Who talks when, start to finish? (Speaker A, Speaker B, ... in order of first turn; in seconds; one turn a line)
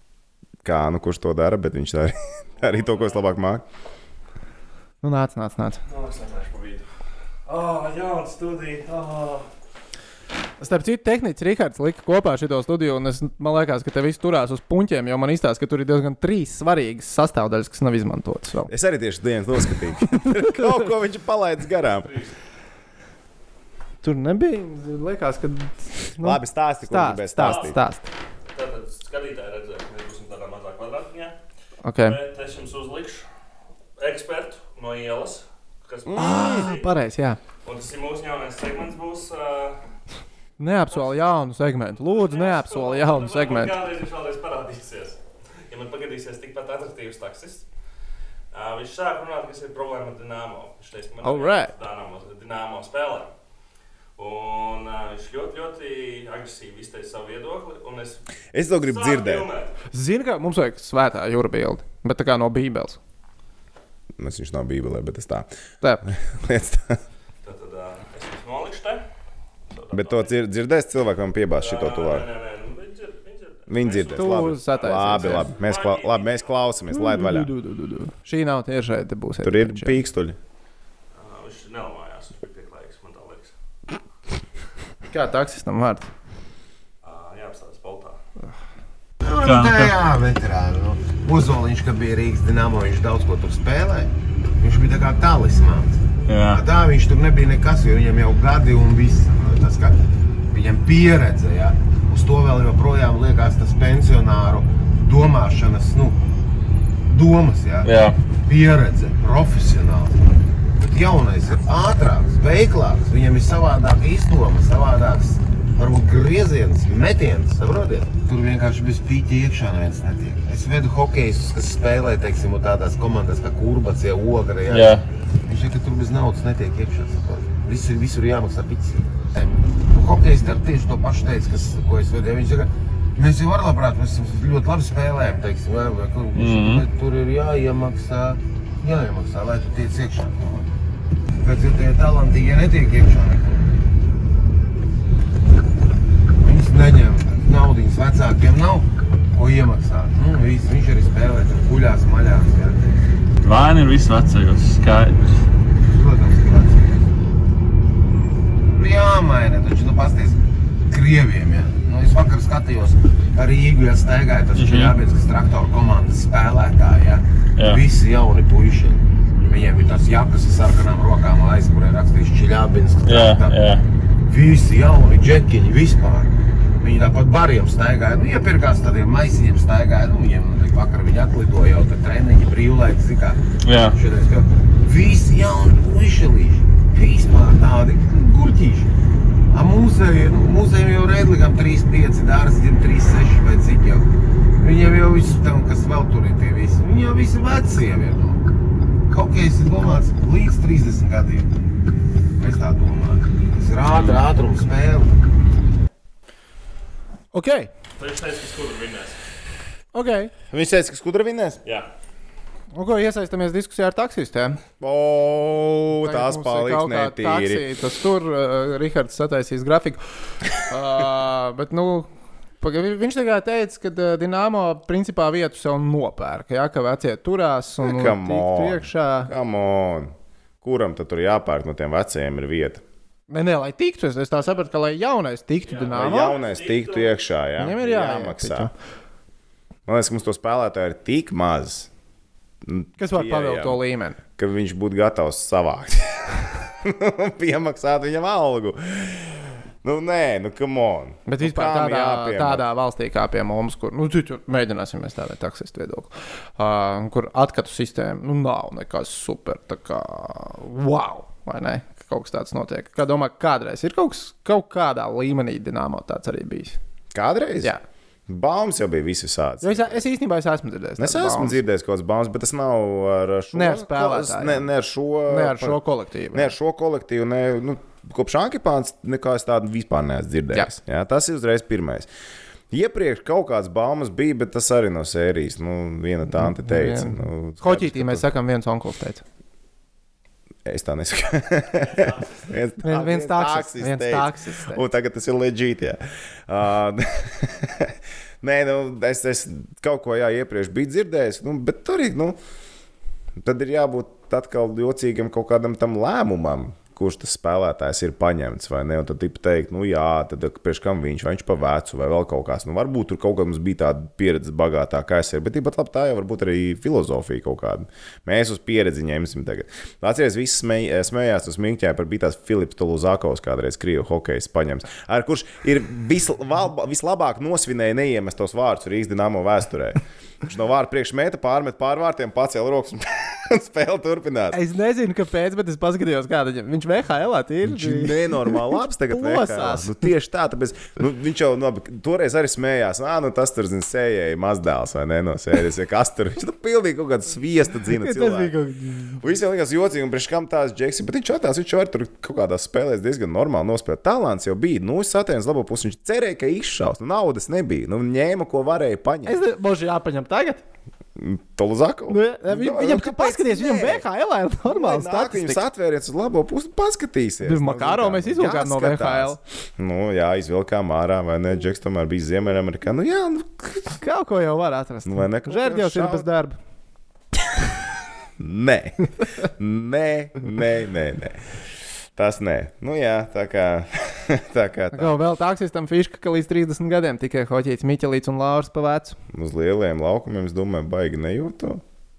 Speaker A: 0.6-3.6
Speaker B: 2.6-3.2
Speaker C: 5.0-5.8
Speaker B: 5.9-6.8
Speaker B: 7.5-9.5
Speaker C: 10.6-18.7
Speaker A: 18.7-22.1
Speaker C: 20.1-20.5
Speaker B: 22.0-22.3
Speaker C: 24.0-28.0
Speaker A: 26.2-27.8
Speaker B: 27.4-27.7
Speaker B: 28.5-31.4
Speaker C: 31.8-32.2
Speaker B: 32.0-33.2
Speaker B: 34.0-36.9
Speaker C: 36.1-37.4
Speaker B: 37.6-39.8
Speaker C: 40.6-43.7
Speaker B: 40.9-41.1
Speaker B: 42.0-47.7
Speaker B: 48.5-53.3
Speaker C: 51.2-51.7
Speaker B: 54.1-58.2
Speaker A: 58.5-59.5
Speaker B: 58.8-59.7
Speaker C: 59.9-63.0
Speaker A: 64.2-65.5
Speaker A: 66.0-67.0
Speaker B: 67.4-69.0
Speaker B: 69.7-70.4
Speaker A: 69.9-72.3
Speaker B: 71.6-76.5
Speaker A: 73.7-77.5
Speaker C: 74.1-75.5
Speaker C: 76.9-80.0
Speaker A: 79.4-80.4
Speaker B: 81.1-83.5
Speaker C: 85.1-86.1
Speaker B: 87.0-88.2
Speaker D: 89.2-100.0
Speaker E: 89.4-89.9
Speaker E: 96.3-96.6
Speaker D: 100.5-106.2
Speaker D: 107.1-110.2
Speaker E: 107.8-108.2
Speaker D: 110.8-140.7
Speaker E: 124.7-125.0
Speaker E: 136.3-136.8
Speaker D: 141.4-143.8
Speaker D: 146.4-152.9
Speaker E: 153.4-155.2
Speaker B: 153.5-154.9
Speaker D: 155.9-157.0
Speaker D: 158.7-173.7
Speaker E: 164.6-164.9
Speaker E: 173.1-173.8
Speaker D: 174.2-183.4
Speaker E: 183.6-183.9
Speaker D: 183.9-188.9
Speaker D: 189.5-198.4
Speaker D: 199.1-201.5
Speaker D: 202.4-205.1
Speaker C: 207.3-207.7
Speaker B: 208.0-209.2
Speaker C: 209.9-210.3
Speaker A: 210.5-211.6
Speaker C: 212.7-214.6
Speaker A: 214.8-217.6
Speaker C: 216.0-220.0
Speaker C: 220.5-222.1
Speaker C: 222.6-229.3
Speaker A: 227.8-232.8
Speaker C: 233.3-236.4
Speaker B: 235.7-237.2
Speaker A: 235.9-238.7
Speaker C: 237.6-238.7
Speaker A: 239.8-241.9
Speaker A: 242.6-243.8
Speaker C: 243.0-244.2
Speaker A: 244.4-252.7
Speaker C: 251.3-266.8
Speaker A: 267.1-267.7
Speaker A: 268.3-270.0
Speaker C: 269.6-271.6
Speaker A: 271.0-275.8
Speaker C: 273.5-274.7
Speaker C: 275.3-276.5
Speaker A: 276.3-282.1
Speaker A: 282.7-288.3
Speaker C: 286.3-289.2
Speaker A: 290.6-302.4
Speaker B: 291.8-292.4
Speaker C: 292.8-294.8
Speaker A: 303.4-334.6
Speaker C: 334.5-339.9
Speaker A: 337.6-348.5
Speaker C: 347.9-349.2
Speaker A: 349.2-359.4
Speaker C: 359.2-360.6
Speaker A: 361.1-364.0
Speaker C: 362.1-365.6
Speaker A: 364.6-374.0
Speaker C: 367.4-369.4
Speaker C: 373.9-376.6
Speaker A: 375.0-376.3
Speaker A: 378.4-381.4
Speaker A: 382.1-385.1
Speaker C: 384.9-389.2
Speaker A: 389.3-391.8